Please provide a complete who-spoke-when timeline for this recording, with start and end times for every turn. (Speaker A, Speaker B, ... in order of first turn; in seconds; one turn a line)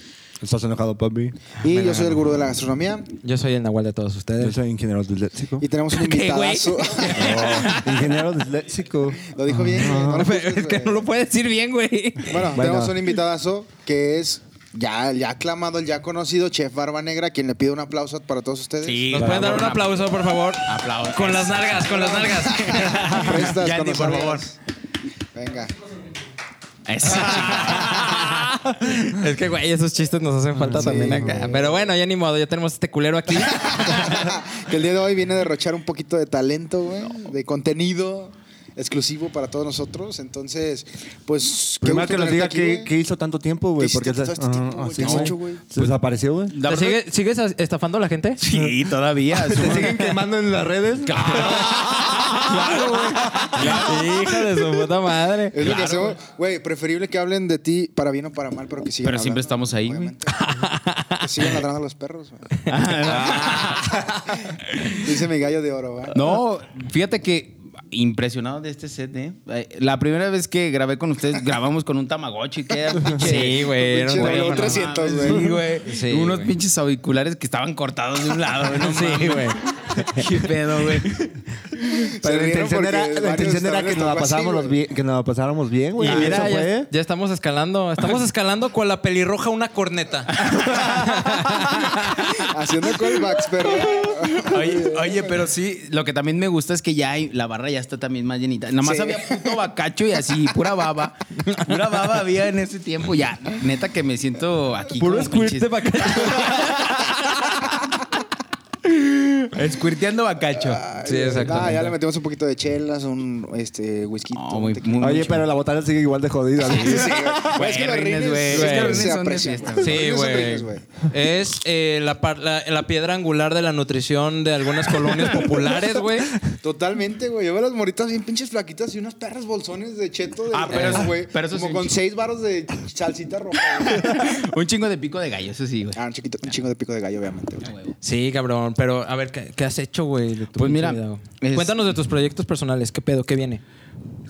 Speaker A: 0.4-1.3
Speaker B: 1.6-3.1
Speaker C: 1.6-2.2
Speaker C: 3.2-4.6
Speaker A: 4.4-5.7
Speaker B: 5.6-7.3
Speaker C: 5.9-8.1
Speaker D: 6.3-7.9
Speaker A: 7.1-10.2
Speaker B: 9.2-11.1
Speaker C: 10.0-12.5
Speaker B: 12.2-19.1
Speaker A: 12.5-12.9
Speaker D: 18.8-20.1
Speaker C: 19.1-23.4
Speaker A: 19.1-19.7
Speaker D: 20.6-24.5
Speaker B: 21.8-24.6
Speaker B: 25.3-25.7
Speaker D: 26.9-28.3
Speaker C: 27.1-34.3
Speaker A: 30.6-31.3
Speaker B: 30.7-31.9
Speaker B: 33.8-42.9
Speaker A: 41.8-46.5
Speaker B: 43.8-45.6
Speaker D: 45.0-46.0
Speaker D: 46.5-47.0
Speaker C: 46.6-48.4
Speaker D: 48.4-50.2
Speaker A: 49.3-53.9
Speaker D: 51.0-54.0
Speaker C: 51.3-55.8
Speaker B: 55.5-60.4
Speaker D: 55.6-56.2
Speaker D: 59.0-60.1
Speaker C: 60.3-61.5
Speaker B: 61.2-63.4
Speaker D: 62.7-63.9
Speaker C: 63.0-64.0
Speaker A: 63.3-63.7
Speaker B: 64.4-66.3
Speaker D: 66.1-81.9
Speaker B: 73.1-75.6
Speaker C: 73.2-76.5
Speaker C: 78.7-80.4
Speaker B: 81.9-84.8
Speaker A: 82.2-86.9
Speaker C: 86.0-92.5
Speaker D: 86.0-86.5
Speaker D: 90.4-91.0
Speaker B: 92.1-95.4
Speaker D: 93.7-106.7
Speaker B: 98.8-99.5
Speaker C: 101.5-102.1
Speaker C: 105.0-107.7
Speaker D: 108.9-110.8
Speaker B: 110.6-115.2
Speaker C: 111.0-111.9
Speaker D: 114.3-115.5
Speaker A: 115.0-117.2
Speaker D: 116.6-120.1
Speaker B: 116.6-121.0
Speaker C: 118.5-119.0
Speaker C: 119.8-126.4
Speaker B: 126.6-134.3
Speaker D: 130.5-132.0
Speaker C: 130.7-131.0
Speaker D: 133.8-136.0
Speaker B: 135.9-137.7
Speaker D: 137.6-137.9
Speaker C: 138.0-143.6
Speaker D: 140.5-141.8